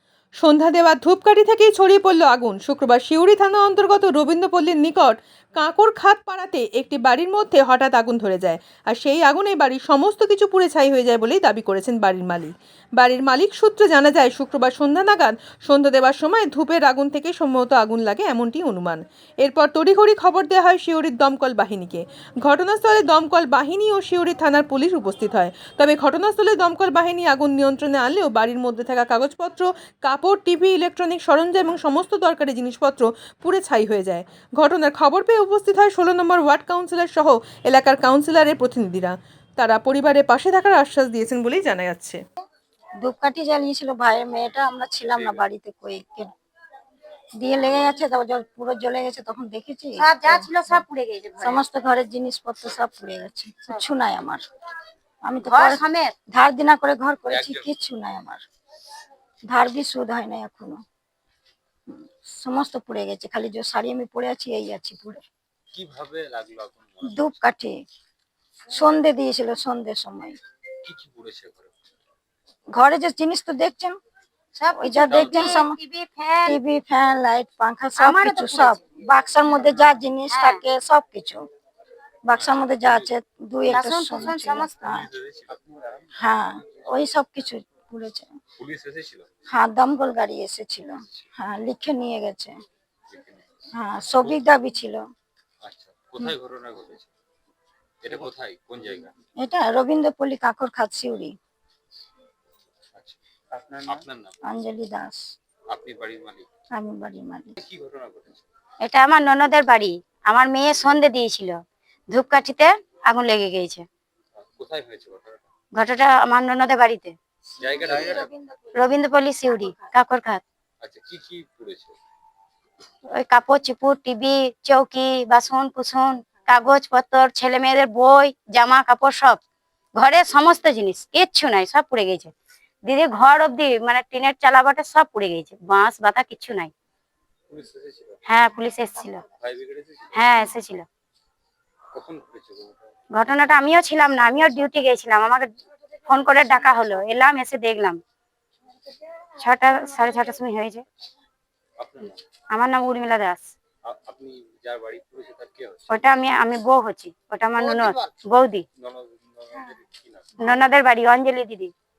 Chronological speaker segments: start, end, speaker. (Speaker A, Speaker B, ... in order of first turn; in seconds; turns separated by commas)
Speaker A: 0.4-42.2, Speaker B: 43.0-46.3, Speaker C: 45.1-45.4, Speaker B: 47.4-50.8, Speaker D: 50.0-51.6, Speaker B: 51.4-54.4, Speaker B: 55.2-58.4, Speaker D: 55.4-56.1, Speaker C: 57.3-57.7, Speaker B: 59.5-60.8, Speaker B: 61.9-65.3, Speaker C: 65.7-67.3, Speaker B: 67.0-67.8, Speaker B: 68.7-70.4, Speaker C: 70.8-71.7, Speaker B: 72.7-74.0, Speaker D: 74.5-76.6, Speaker B: 74.7-75.8, Speaker C: 75.1-75.6, Speaker B: 76.5-81.5, Speaker D: 78.0-78.8, Speaker D: 80.3-80.6, Speaker B: 82.2-85.1, Speaker C: 82.3-83.1, Speaker D: 83.7-84.8, Speaker C: 84.8-86.1, Speaker B: 86.2-88.3, Speaker C: 88.6-89.3, Speaker B: 89.5-92.6, Speaker C: 93.1-93.4, Speaker B: 93.8-95.0, Speaker C: 95.6-97.1, Speaker C: 98.0-99.1, Speaker B: 99.4-101.3, Speaker C: 103.0-104.3, Speaker B: 104.5-105.2, Speaker C: 105.7-106.5, Speaker B: 106.7-107.6, Speaker C: 107.6-108.5, Speaker D: 108.8-111.6, Speaker D: 112.1-113.9, Speaker C: 114.4-115.5, Speaker D: 115.8-117.2, Speaker B: 117.6-119.9, Speaker C: 117.6-118.3, Speaker D: 118.8-120.4, Speaker C: 120.8-122.0, Speaker D: 123.2-129.4, Speaker D: 130.0-132.3, Speaker D: 132.9-136.7, Speaker C: 137.5-138.2, Speaker D: 138.3-139.2, Speaker C: 139.4-140.4, Speaker D: 140.1-140.9, Speaker C: 141.9-142.9, Speaker D: 143.1-145.5, Speaker D: 146.1-148.0, Speaker D: 149.4-150.8, Speaker C: 151.8-152.2, Speaker D: 152.5-153.5, Speaker C: 153.9-156.0, Speaker D: 155.9-158.7, Speaker C: 157.6-158.2, Speaker C: 158.8-160.4, Speaker D: 160.4-161.7